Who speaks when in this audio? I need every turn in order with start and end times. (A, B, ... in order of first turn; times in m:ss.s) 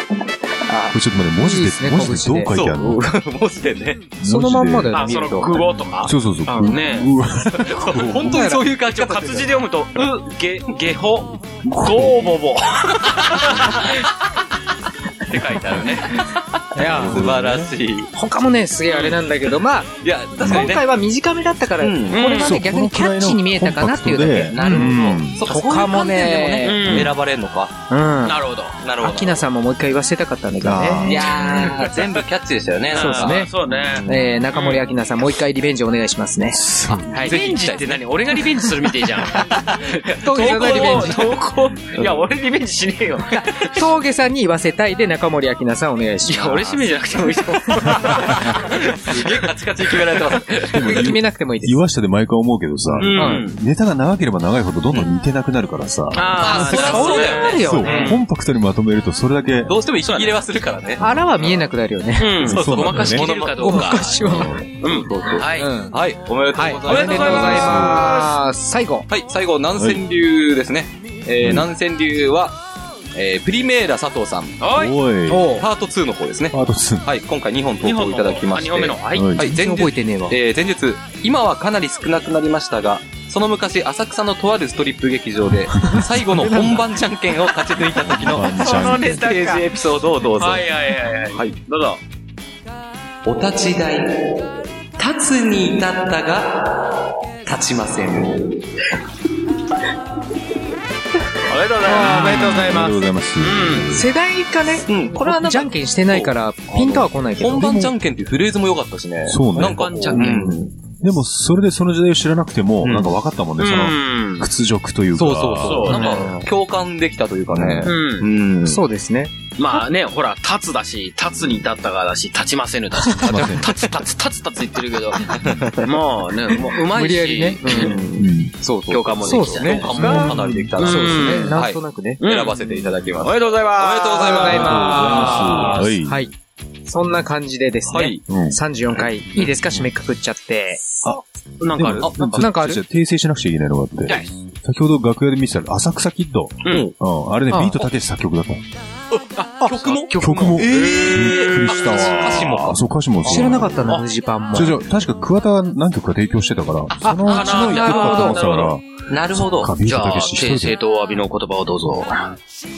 0:00.7-0:01.0 A
0:00.9-0:03.0 B
0:01.4-0:02.5 C
0:02.4-0:04.1 A
0:04.2-0:05.2 B
0:04.2-0:05.6 C
0:04.9-0:07.1 D
0:06.0-0:08.3 B
0:07.6-0:09.5 A
0:08.2-0:08.6 C
0:08.9-0:14.0 D
0:11.7-0:12.3 B
0:12.9-0:13.9 A
0:15.2-0:16.1 D
0:15.4-0:15.8 B
0:16.7-0:17.3 C
0:16.8-0:18.1 A
0:16.8-0:17.7 B
0:18.1-0:19.9 C
0:18.9-0:19.2 D
0:20.0-0:20.9 A
0:20.4-0:20.8 B
0:20.4-0:25.0 C
0:21.8-0:22.3 A
0:22.1-0:22.6 D
0:22.3-0:25.4 B
0:24.5-0:27.8 A
0:25.5-0:27.1 C
0:26.6-0:27.1 D
0:27.9-0:28.4 C
0:28.2-0:28.8 D
0:28.8-0:29.4 A
0:29.0-0:31.2 C
0:30.6-0:31.3 B
0:31.0-0:34.2 A
0:31.1-0:32.2 D
0:32.9-0:34.9 D
0:32.9-0:33.5 C
0:34.0-0:37.4 C
0:36.5-0:37.3 B
0:37.2-0:43.7 D
0:37.2-0:38.0 A
0:40.2-0:41.3 C
0:40.6-0:41.0 A
0:41.9-0:42.3 A
0:43.4-0:43.7 A
0:43.7-0:47.0 C
0:46.2-0:48.7 D
0:47.5-0:48.2 C
0:48.4-0:50.9 A
0:50.6-0:56.8 B
0:50.8-0:51.8 C
0:52.9-0:53.3 A
0:53.0-0:53.6 D
0:53.2-0:53.4 C
0:56.1-0:58.2 D
0:56.3-0:57.9 A
0:56.4-0:58.2 C
0:57.6-0:59.7 B
0:59.6-1:01.6 A
1:00.0-1:00.4 D
1:01.0-1:02.5 C
1:02.2-1:04.2 D
1:02.4-1:03.3 B
1:02.4-1:04.3 A
1:03.6-1:04.6 C
1:04.2-1:04.7 B
1:04.8-1:05.7 D
1:04.8-1:08.0 A
1:05.5-1:05.9 C
1:06.5-1:09.1 C
1:06.9-1:08.3 B
1:06.9-1:08.3 D
1:09.1-1:12.6 A
1:09.8-1:10.0 B
1:11.4-1:11.7 B
1:13.1-1:14.6 A
1:14.6-1:15.0 D
1:14.7-1:15.6 B
1:15.3-1:15.7 C
1:15.6-1:30.6 A
1:16.5-1:17.1 B
1:17.8-1:19.4 D
1:19.1-1:19.5 B
1:19.4-1:20.4 C
1:25.9-1:26.8 C
1:28.0-1:29.3 B
1:28.5-1:29.7 D
1:30.4-1:32.0 D
1:33.2-1:34.3 A
1:35.0-1:36.9 A
1:37.4-1:38.8 A
1:41.4-1:42.6 D
1:41.8-1:43.0 C
1:42.0-1:44.1 B
1:43.4-1:43.9 D
1:43.9-1:47.9 C
1:44.9-1:50.7 A
1:49.2-1:56.3 B
1:49.5-1:50.6 D
1:52.8-1:54.5 D
1:55.1-1:58.8 A
1:55.6-1:56.4 D
1:56.0-1:56.4 C
1:57.5-1:57.9 B
1:57.8-1:58.3 D
1:58.6-1:59.8 C
1:59.6-2:08.2 D
2:03.2-2:03.7 B
2:05.3-2:06.0 A
2:05.4-2:05.7 B
2:06.6-2:08.0 C
2:07.6-2:15.8 A
2:08.2-2:08.5 B
2:08.9-2:11.6 D
2:09.2-2:12.2 C
2:12.2-2:16.0 D
2:14.2-2:15.4 C
2:14.4-2:16.2 B
2:16.0-2:16.3 C
2:16.8-2:20.9 C
2:17.9-2:18.2 A
2:18.3-2:18.6 B
2:18.9-2:19.5 A
2:21.0-2:28.6 B
2:21.6-2:22.2 D
2:22.0-2:22.6 A
2:22.4-2:22.8 C
2:26.6-2:26.9 D
2:26.7-2:26.9 A
2:27.5-2:27.9 C
2:29.1-2:32.8 A
2:29.6-2:32.5 D
2:30.2-2:34.0 B
2:33.2-2:34.8 C
2:34.5-2:40.8 B
2:37.0-2:38.4 C
2:37.3-2:38.7 D
2:39.1-2:39.7 A
2:39.8-2:42.3 D